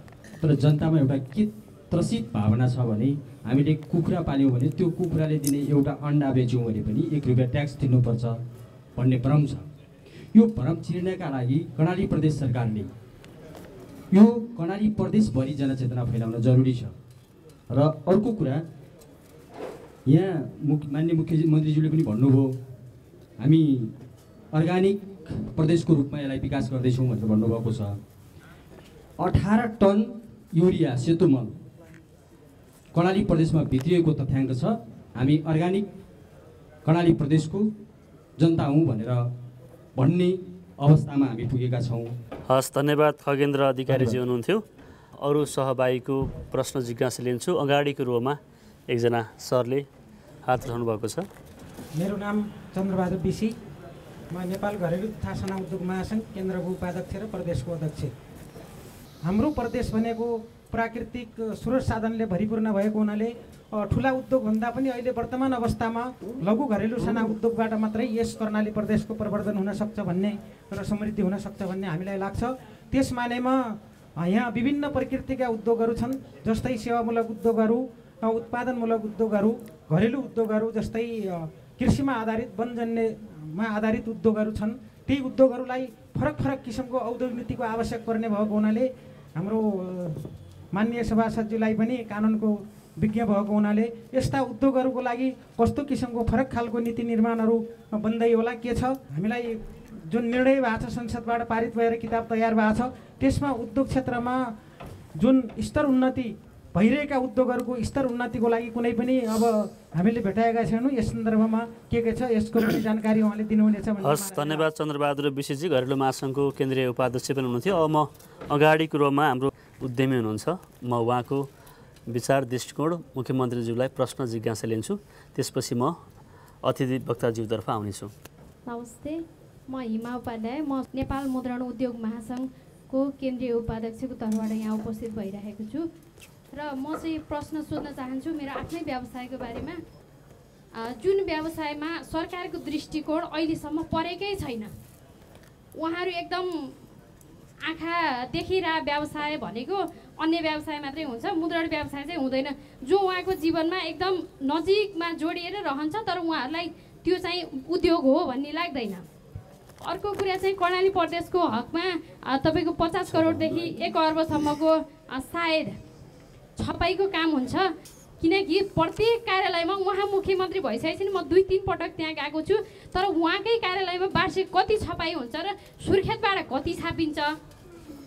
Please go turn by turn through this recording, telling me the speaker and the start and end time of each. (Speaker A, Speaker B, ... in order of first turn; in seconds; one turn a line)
Speaker A: 0.4-8.4
Speaker A: 8.9-9.7
Speaker A: 10.3-12.9
Speaker A: 14.1-16.9
Speaker A: 17.7-18.6
Speaker A: 20.1-22.6
Speaker A: 23.4-23.9
Speaker A: 24.5-28.0
Speaker A: 29.2-31.6
Speaker A: 32.9-35.9
Speaker A: 36.9-37.7
Speaker A: 38.4-39.3
Speaker A: 40.0-42.1
Speaker B: 42.5-44.6
Speaker A: 43.9-44.2
Speaker B: 45.2-49.9
Speaker B: 50.5-51.3
Speaker C: 52.0-53.6
Speaker C: 54.3-58.1
Speaker C: 59.2-104.5
Speaker C: 105.2-114.7
Speaker B: 114.0-121.5
Speaker B: 122.1-126.0
Speaker B: 126.6-128.1
Speaker D: 128.7-135.9
Speaker D: 136.5-139.8
Speaker D: 140.8-144.7
Speaker D: 145.8-146.7
Speaker D: 147.6-159.1
Speaker D: 159.8-165.8
Speaker D: 166.6-167.7
Speaker D: 168.2-177.3